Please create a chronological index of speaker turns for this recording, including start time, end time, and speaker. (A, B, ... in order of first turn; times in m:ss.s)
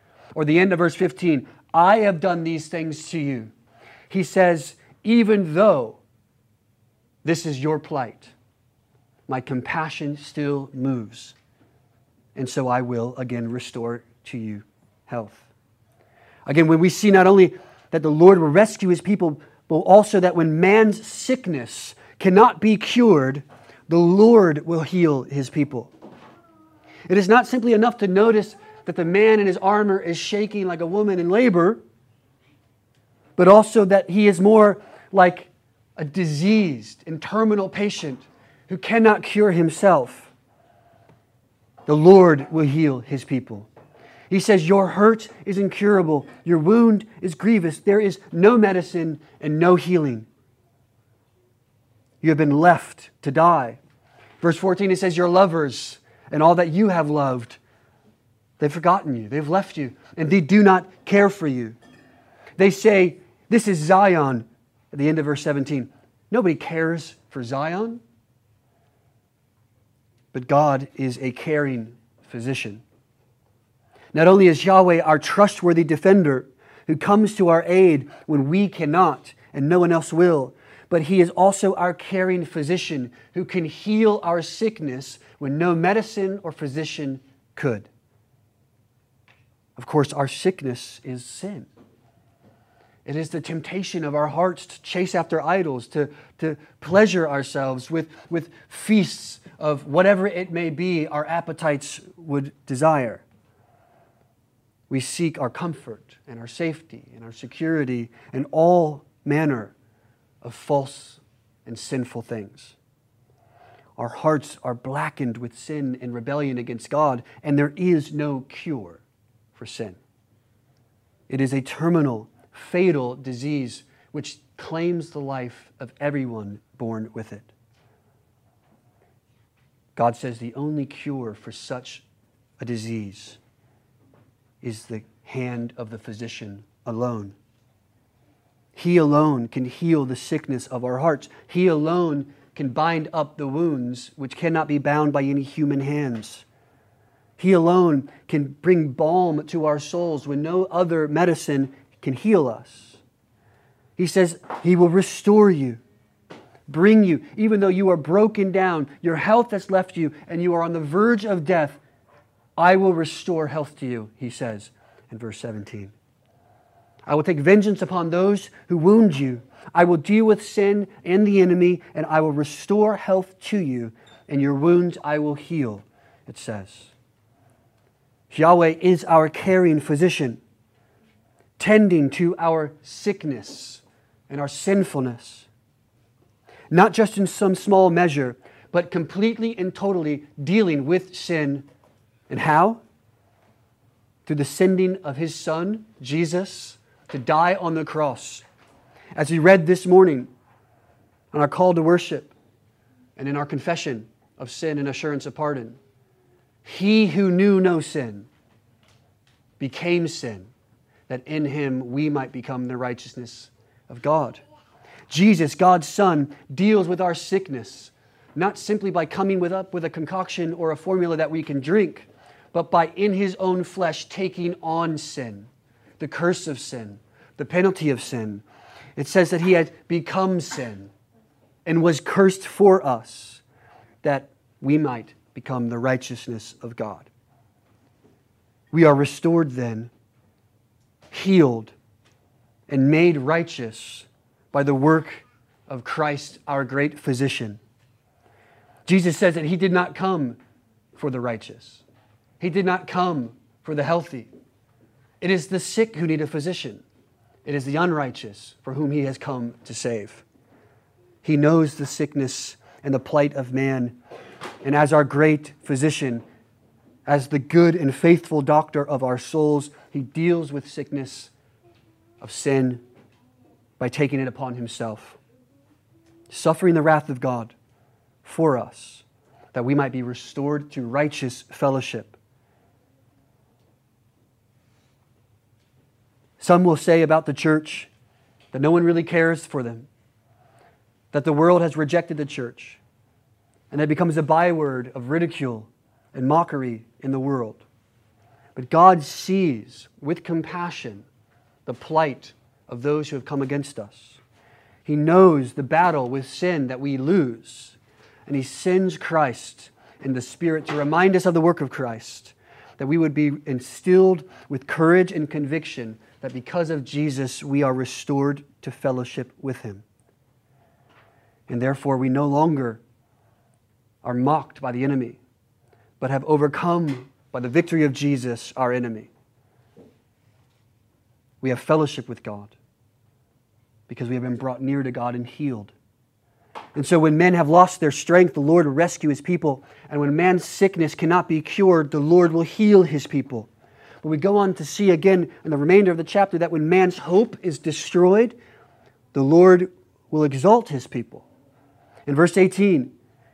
0:00.3-0:03.5 A
0:04.1-0:06.0 A
0:07.2-0:08.3 A
0:09.3-0:11.3 A
0:12.3-0:15.5 A
0:16.4-0:25.9 A
0:27.1-0:31.8 A
0:33.4-0:40.3 A
0:41.9-0:43.7 A
0:44.3-0:50.3 A
0:52.2-0:53.8 A
0:54.4-0:57.6 A
0:58.6-1:01.8 A
1:02.6-1:08.0 A
1:10.3-1:12.8 A
1:14.1-1:27.9 A
1:29.8-1:31.7 A
1:33.0-1:43.2 A
1:44.9-1:49.7 A
1:50.4-1:52.8 A
1:54.0-1:59.0 A
1:59.5-2:00.0 A
2:01.3-2:07.5 A
2:10.0-2:12.0 A
2:12.6-2:13.4 A
2:14.6-2:17.4 A
2:18.7-2:26.4 A
2:27.4-2:33.0 A
2:34.0-2:35.8 A
2:36.7-2:41.8 A
2:42.6-2:45.9 A
2:47.0-2:56.9 A
2:58.3-3:00.4 A
3:01.6-3:05.5 A
3:06.7-3:11.7 A
3:12.3-3:12.8 A
3:14.2-3:18.4 A
3:19.2-3:20.3 A
3:21.3-3:22.3 A
3:23.2-3:25.8 A
3:26.6-3:28.3 A
3:29.6-3:30.5 A
3:31.1-3:34.4 A
3:35.1-3:48.4 A
3:49.0-3:50.9 A
3:51.6-3:53.4 A
3:54.0-3:57.1 A
3:58.7-3:59.9 A
4:01.1-4:01.7 A
4:02.7-4:07.6 A
4:08.8-4:10.4 A
4:10.9-4:11.8 A
4:12.4-4:14.3 A
4:15.2-4:16.8 A
4:17.4-4:20.2 A
4:21.2-4:24.0 A
4:24.6-4:26.2 A
4:27.0-4:31.3 A
4:32.2-4:32.8 A
4:33.8-4:35.2 A
4:36.3-4:37.5 A
4:38.2-4:42.2 A
4:46.4-4:47.9 A
4:48.5-4:49.9 A
4:51.1-4:52.8 A
4:53.7-4:57.6 A
4:58.5-5:01.0 A
5:01.6-5:04.2 A
5:04.8-5:19.8 A
5:21.5-5:22.8 A
5:24.0-5:25.2 A
5:26.0-5:29.1 A
5:31.4-5:32.5 A
5:33.9-5:35.7 A
5:36.7-5:43.5 A
5:44.0-5:48.4 A
5:49.1-5:51.2 A
5:52.0-5:52.9 A